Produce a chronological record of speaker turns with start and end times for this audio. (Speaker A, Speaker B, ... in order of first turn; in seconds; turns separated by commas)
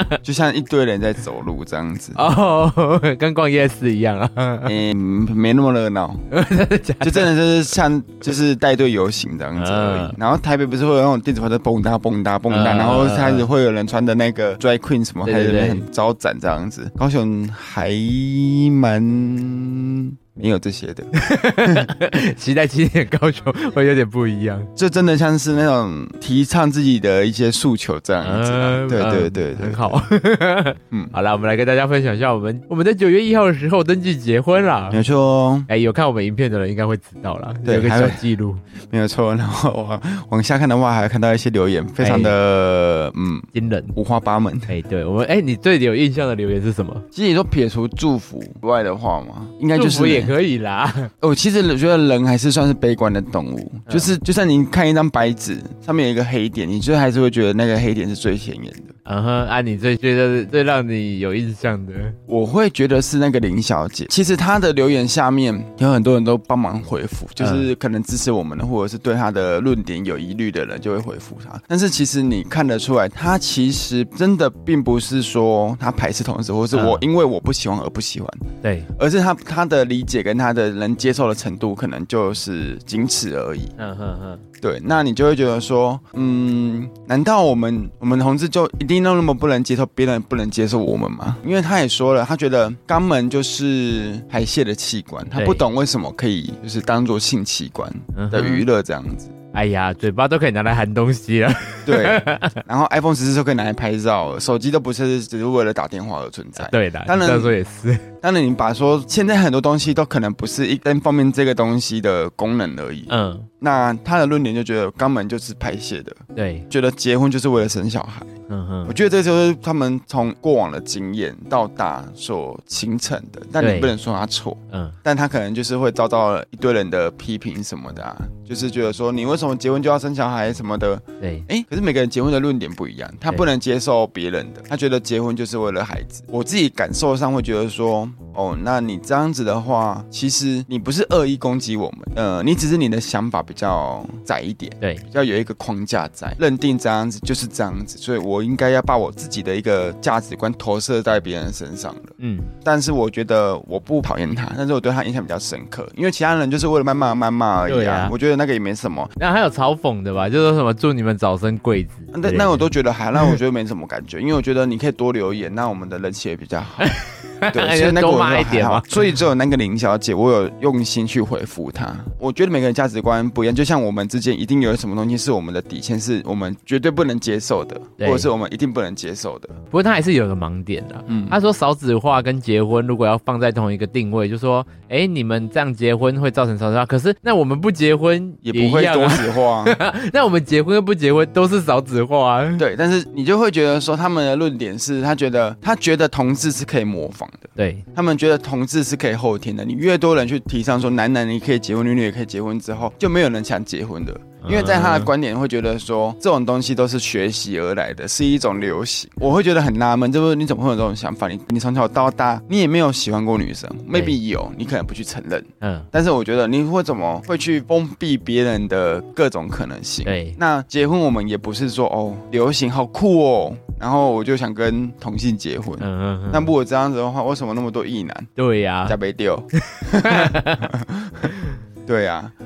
Speaker A: 0.2-2.2, Speaker B: 2.1-4.7, Speaker A: 4.6-6.2, Speaker B: 6.3-7.3, Speaker A: 7.0-21.1, Speaker B: 9.6-10.1, Speaker B: 12.5-13.5, Speaker B: 15.2-15.8, Speaker B: 21.2-24.7, Speaker A: 24.8-30.1, Speaker B: 28.2-35.0, Speaker A: 34.9-35.7, Speaker B: 35.7-38.6, Speaker A: 37.6-38.2, Speaker A: 38.9-44.7, Speaker B: 42.0-42.4, Speaker B: 43.5-44.0, Speaker B: 44.7-47.0, Speaker A: 47.1-50.3, Speaker B: 49.7-51.1, Speaker A: 51.2-58.9, Speaker B: 59.0-62.2, Speaker A: 62.3-78.4, Speaker B: 67.4-67.7, Speaker B: 76.7-77.0, Speaker B: 78.6-78.9, Speaker A: 79.0-83.7, Speaker B: 83.8-84.4, Speaker A: 84.6-99.3, Speaker B: 95.3-95.6, Speaker B: 98.1-98.6, Speaker B: 99.5-102.6, Speaker A: 101.9-107.5, Speaker B: 106.6-108.0, Speaker A: 108.2-118.3, Speaker B: 113.1-113.5, Speaker B: 116.3-116.7, Speaker B: 118.5-118.9, Speaker A: 118.9-152.1, Speaker B: 123.6-123.9, Speaker B: 124.7-125.0, Speaker B: 131.2-131.5, Speaker B: 152.2-152.5, Speaker A: 152.6-159.1, Speaker B: 157.7-158.1, Speaker B: 159.2-163.3, Speaker A: 162.1-166.9, Speaker B: 166.8-169.0, Speaker A: 167.5-179.6, Speaker B: 178.0-178.3, Speaker B: 179.7-192.6, Speaker A: 181.1-181.4, Speaker A: 188.4-189.8, Speaker A: 192.6-228.3, Speaker B: 197.6-197.8, Speaker B: 204.4-205.1, Speaker B: 215.6-215.9, Speaker B: 220.1-220.4, Speaker B: 225.8-226.5, Speaker B: 228.4-229.0, Speaker A: 228.8-231.3, Speaker B: 229.7-230.7, Speaker A: 231.8-232.3